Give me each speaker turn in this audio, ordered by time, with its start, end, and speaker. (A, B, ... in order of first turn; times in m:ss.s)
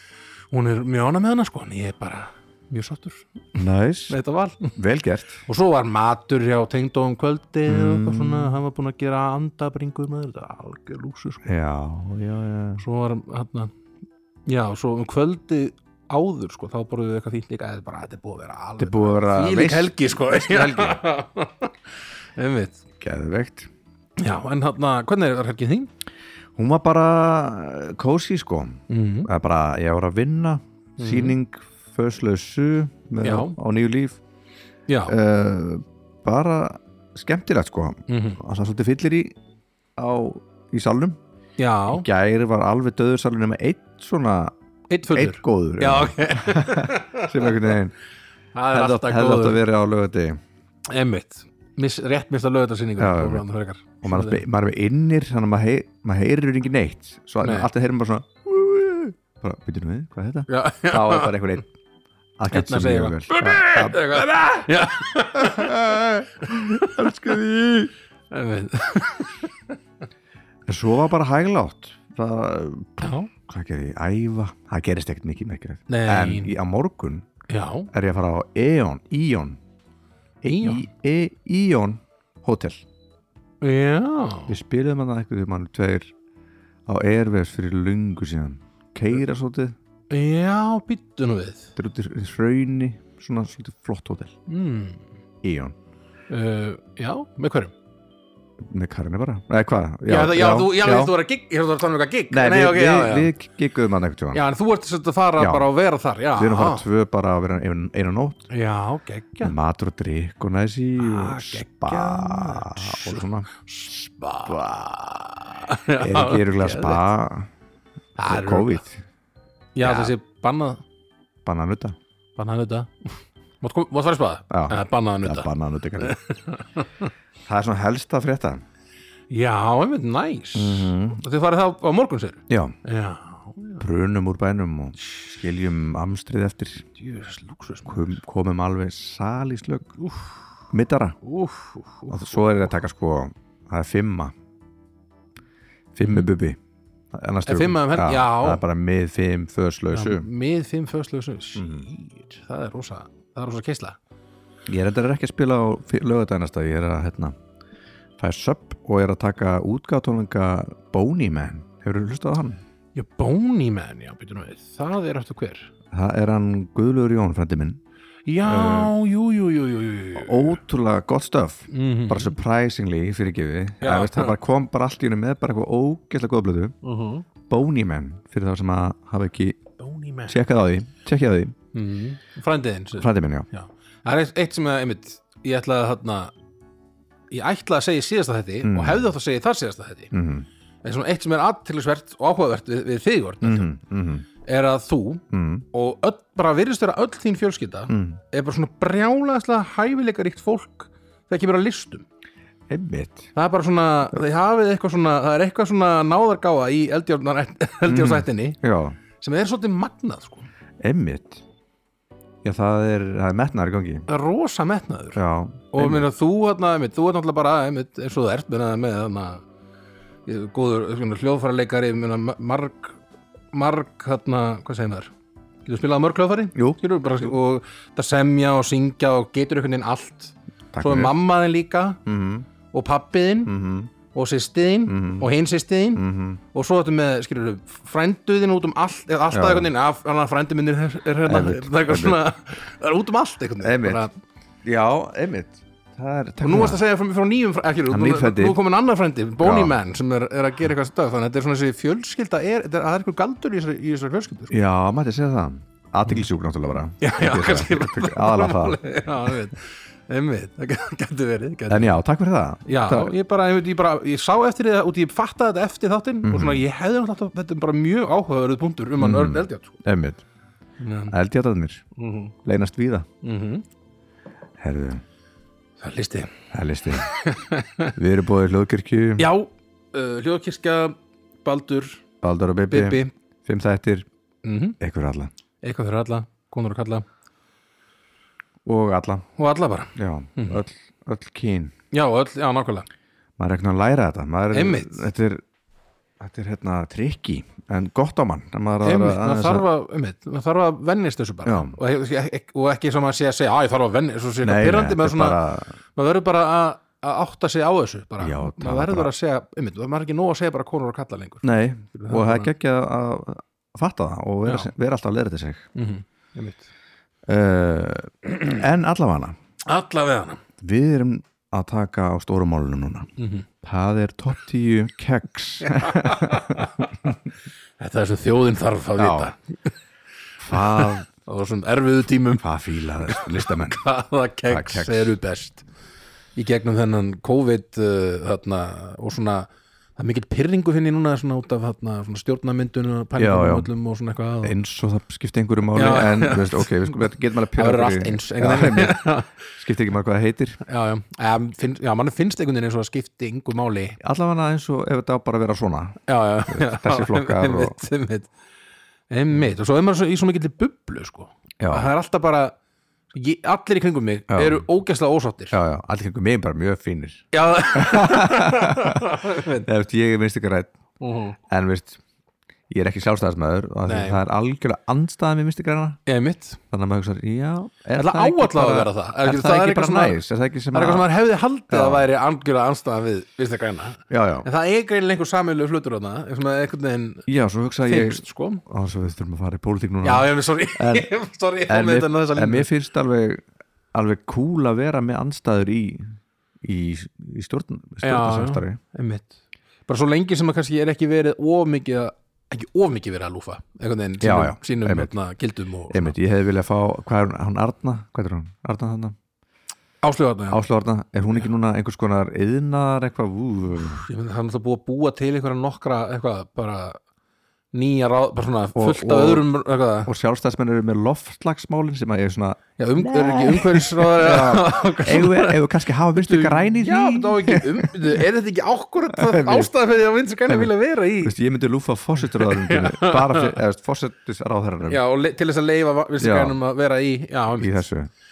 0:00.5-0:03.3 A
0:03.6-0:04.2 B
0:04.1-0:04.8 A
0:04.8-0:05.4 B
0:05.5-0:11.4 A
0:07.7-0:08.6 B
0:11.4-0:12.8 B
0:12.8-0:13.7 A
0:14.5-0:21.8 A
0:18.8-0:21.0 B
0:22.4-0:22.8 A
0:23.0-0:23.7 B
0:24.2-0:25.9 A
0:26.6-0:34.2 B
0:28.9-0:29.3 A
0:31.0-0:31.4 A
0:33.2-0:33.6 A
0:34.9-0:35.2 A
0:35.1-0:39.3 B
0:38.1-0:38.4 A
0:40.0-0:41.2 B
0:41.6-0:42.1 A
0:41.9-0:44.5 B
0:44.9-0:47.7 A
0:45.1-0:47.9 B
0:48.6-0:49.6 A
0:48.7-0:50.4 B
0:50.9-0:54.4 A
0:53.0-0:53.4 B
0:54.0-1:01.7 B
0:57.4-0:57.7 A
1:00.5-1:01.4 A
1:02.4-1:04.7 B
1:02.5-1:05.8 A
1:05.4-1:07.9 B
1:06.5-1:07.1 A
1:08.3-1:09.5 A
1:10.7-1:17.3 B
1:13.0-1:13.3 A
1:15.9-1:16.5 A
1:17.5-1:17.9 A
1:17.9-1:19.6 B
1:20.4-1:22.8 B
1:20.5-1:20.8 A
1:23.6-1:24.6 A
1:24.5-1:26.1 B
1:26.9-1:29.8 B
1:30.1-1:31.7 A
1:31.8-1:34.4 B
1:34.5-1:35.0 A
1:35.4-1:35.8 B
1:36.3-1:37.7 A
1:38.6-1:41.1 B
1:40.1-1:43.3 A
1:42.3-1:44.4 B
1:44.3-1:46.8 A
1:45.4-1:45.7 B
1:46.4-1:48.5 B
1:48.5-1:49.5 A
1:49.4-1:53.5 B
1:51.0-1:57.0 A
1:56.0-1:57.5 B
1:58.2-1:58.8 A
1:58.2-1:59.0 B
1:59.8-2:00.8 A
1:59.8-2:00.1 B
2:01.4-2:02.0 B
2:02.4-2:07.1 A
2:04.5-2:06.2 B
2:07.5-2:08.6 B
2:09.3-2:13.8 A
2:10.6-2:11.2 B
2:12.5-2:12.8 B
2:13.8-2:16.8 B
2:17.0-2:18.1 A
2:17.9-2:19.9 B
2:20.0-2:20.3 A
2:20.7-2:21.2 B
2:21.2-2:22.4 A
2:22.1-2:24.3 B
2:26.0-2:26.6 B
2:27.1-2:30.3 B
2:27.5-2:28.6 A
2:29.9-2:34.0 A
2:31.6-2:31.9 B
2:34.7-2:37.4 B
2:38.2-2:42.6 B
2:43.0-2:45.7 A
2:45.9-2:47.8 B
2:48.3-2:50.6 A
2:48.4-2:48.9 B
2:50.2-2:56.8 B
2:51.7-2:52.4 A
2:53.8-2:54.4 A
2:56.8-2:57.2 A
2:57.5-2:59.6 B
2:59.8-3:00.4 A
3:00.3-3:01.6 B
3:01.7-3:06.3 A
3:03.0-3:03.5 B
3:07.3-3:10.1 A
3:08.6-3:09.1 B
3:10.1-3:10.5 B
3:10.8-3:13.7 A
3:13.4-3:14.3 B
3:14.4-3:22.0 A
3:15.3-3:15.6 B
3:17.9-3:18.2 B
3:22.7-3:23.3 B
3:23.4-3:28.6 A
3:27.9-3:29.0 B
3:29.2-3:30.5 A
3:30.8-3:31.4 B
3:32.4-3:34.1 B
3:34.1-3:35.2 A
3:35.2-3:36.1 B
3:35.7-3:39.4 A
3:40.3-3:43.0 A
3:43.5-3:45.1 A
3:45.6-3:52.0 A
3:46.6-3:46.8 B
3:50.7-3:51.1 B
3:52.1-3:52.5 B
3:52.7-3:53.5 A
3:53.5-3:53.9 B
3:54.1-4:04.2 A
3:54.9-3:55.3 B
3:56.0-3:56.4 B
3:59.3-3:59.7 B
4:01.3-4:02.2 B
4:03.6-4:04.0 B
4:04.6-4:06.8 B
4:06.4-4:14.5 A
4:07.9-4:08.6 B
4:09.4-4:09.8 B
4:14.5-4:19.3 B
4:17.0-4:22.0 A
4:21.7-4:23.1 B
4:22.7-4:29.8 A
4:26.2-4:26.6 B
4:29.0-4:30.2 B
4:30.8-4:31.2 A
4:31.1-4:31.9 B
4:32.0-4:32.3 A
4:32.4-4:33.1 B
4:33.2-4:33.6 A
4:34.6-4:35.0 B
4:35.8-4:36.3 A
4:36.5-4:37.1 B
4:36.9-4:37.9 A
4:38.0-4:39.3 B
4:39.2-4:42.0 A
4:42.2-4:44.1 B
4:42.7-4:43.1 A
4:44.4-4:44.8 A
4:44.8-4:45.3 B
4:45.6-4:47.0 A
4:48.6-4:49.3 B
4:49.4-4:50.6 A
4:50.0-4:51.7 B
4:51.9-4:52.9 A
4:53.4-4:55.4 B
4:54.5-4:55.1 A
4:56.2-4:59.7 B
4:58.8-5:05.4 A
5:01.4-5:01.8 B
5:04.4-5:05.8 B
5:06.0-5:12.5 A
5:08.2-5:09.1 B
5:11.4-5:15.7 B
5:14.5-5:14.7 A
5:15.8-5:16.7 A
5:17.3-5:19.4 B
5:19.7-5:20.4 A
5:20.6-5:23.1 B
5:23.2-5:23.5 A
5:23.6-5:27.1 B
5:25.6-5:27.1 A
5:27.8-5:29.7 A
5:29.0-5:29.3 B
5:30.4-5:31.0 B
5:30.5-5:32.5 A
5:32.4-5:33.8 B
5:33.0-5:35.6 A
5:34.5-5:35.2 B
5:36.4-5:44.6 A
5:43.2-5:43.7 B
5:44.4-5:49.0 B
5:45.8-5:47.0 A
5:47.6-5:49.4 A
5:49.6-5:50.6 B
5:50.6-5:54.0 A
5:54.0-5:57.8 B
5:56.1-5:58.3 A
5:59.1-6:02.6 A
6:01.6-6:01.9 B
6:03.1-6:05.6 A
6:04.3-6:04.6 B
6:05.5-6:10.7 B
6:07.3-6:09.7 A
6:11.0-6:11.4 A
6:11.5-6:12.0 B
6:12.7-6:16.0 B
6:13.9-6:14.2 A
6:16.1-6:16.6 A
6:16.7-6:21.1 B
6:18.0-6:20.2 A
6:20.7-6:27.3 A
6:21.7-6:22.1 B
6:24.1-6:24.5 B
6:27.3-6:31.1 B
6:27.9-6:28.6 A
6:30.0-6:32.7 A
6:31.7-6:38.8 B
6:38.0-6:46.2 A
6:44.2-6:45.1 B
6:45.9-6:49.2 B
6:50.0-6:50.6 A
6:50.5-6:54.0 B
6:53.8-6:57.0 A
6:57.7-7:00.1 A
6:58.8-6:59.5 B
7:00.1-7:08.2 B
7:02.8-7:05.6 A
7:06.2-7:11.3 A
7:09.1-7:09.7 B
7:10.5-7:15.0 B
7:12.3-7:13.6 A
7:14.9-7:17.8 A
7:16.2-7:16.6 B
7:17.6-7:18.1 B